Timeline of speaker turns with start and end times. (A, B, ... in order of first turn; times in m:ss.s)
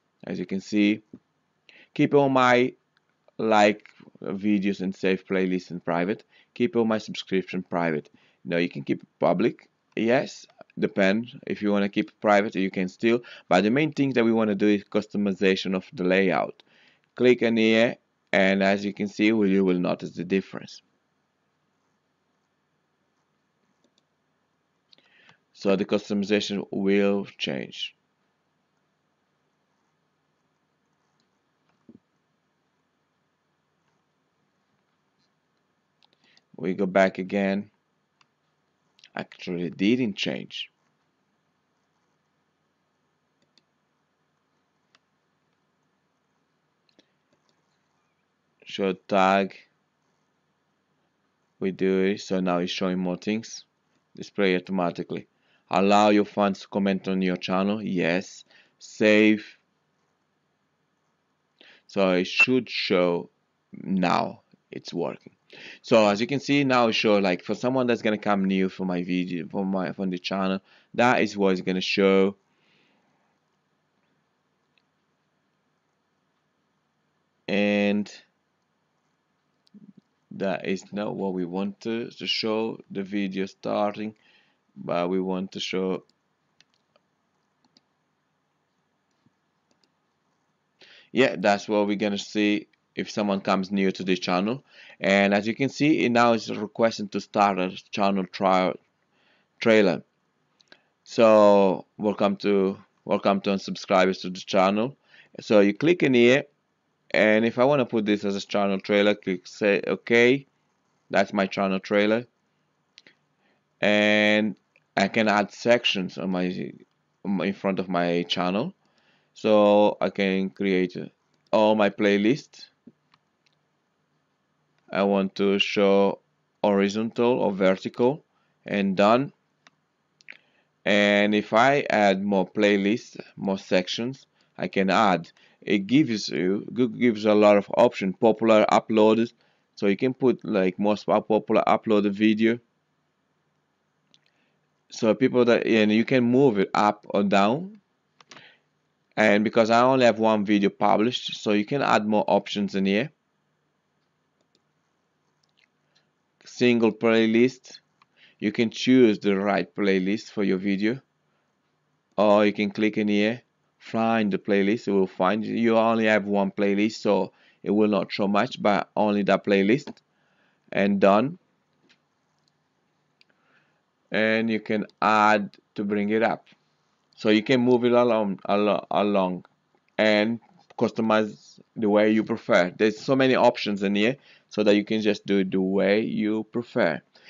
0:00.2-0:01.0 A
0:01.9-0:02.8 A
0:03.4-0:16.6 A
0:17.2-0:20.8 A
0:25.5-0:28.0 A
0:36.6-0:37.7 A
0:39.1-0:40.7 A
0:48.6-0:49.7 A
0:51.6-0:59.6 A
1:01.9-1:12.4 A
1:17.5-1:18.2 A
1:20.3-1:24.2 A
1:24.8-1:26.0 A
1:31.1-1:38.8 A
1:39.6-1:40.0 A
1:41.0-1:46.5 A
1:47.1-1:50.5 A
1:51.1-1:52.3 A
1:53.8-1:58.7 A
1:59.3-2:02.7 A
2:04.9-2:09.3 A
2:10.8-2:22.6 A
2:24.9-2:27.8 A
2:29.2-2:33.1 A
2:36.4-2:37.8 A
2:38.4-2:41.0 A
2:42.2-2:50.0 A
2:50.7-2:51.4 A
2:54.1-2:56.5 A
2:57.2-2:59.4 A
3:00.0-3:07.0 A